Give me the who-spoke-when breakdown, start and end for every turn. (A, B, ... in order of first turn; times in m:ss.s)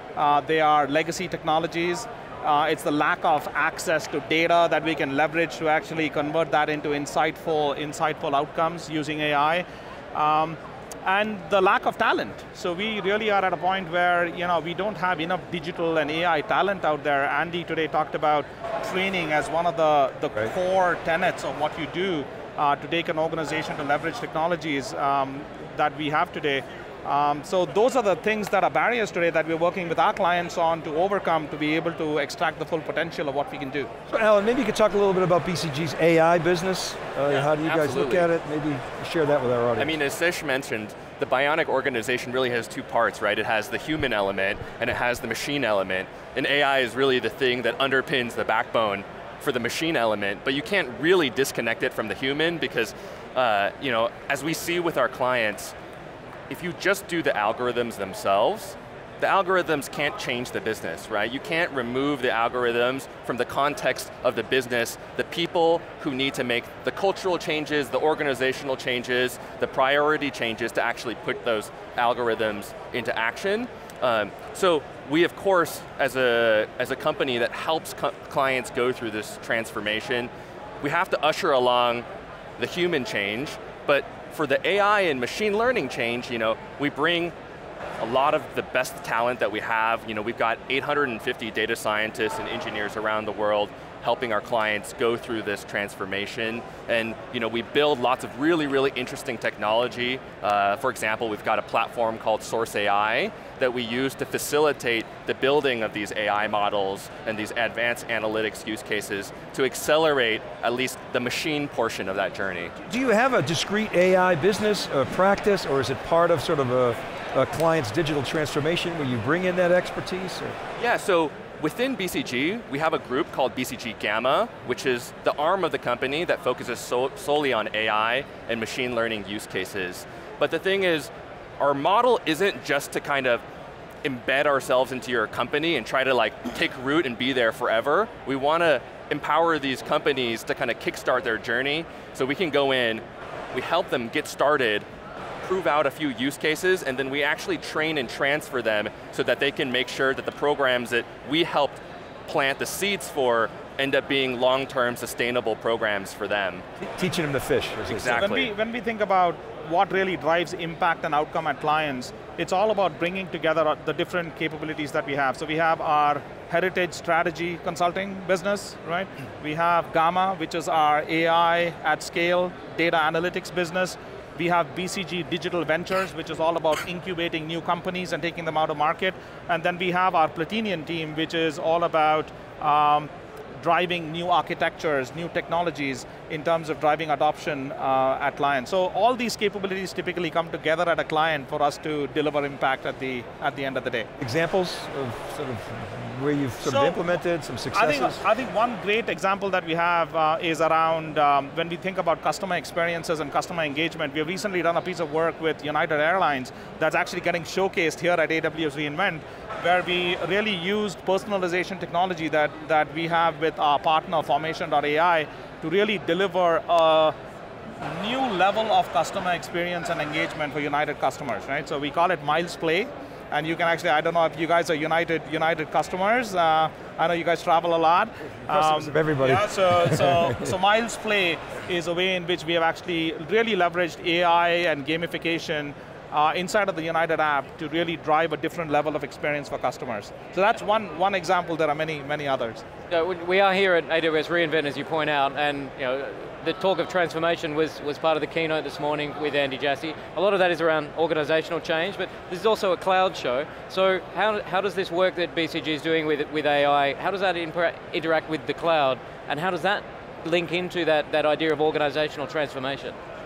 0:00.2-0:33.9 A
0:34.1-0:39.9 B
0:37.3-0:38.3 C
0:39.8-0:55.8 C
0:56.5-1:20.3 C
1:20.8-1:22.1 C
1:22.6-1:27.3 C
1:28.0-1:52.7 C
1:52.9-2:00.6 B
2:00.8-2:13.4 C
2:14.0-2:24.9 C
2:25.4-2:36.6 C
2:36.8-2:38.2 B
2:37.8-2:38.5 C
2:38.1-3:14.1 A
3:14.2-3:18.2 B
3:16.6-3:17.0 A
3:17.7-3:37.1 A
3:37.8-4:02.6 A
3:48.5-3:50.5 B
4:02.9-4:23.0 D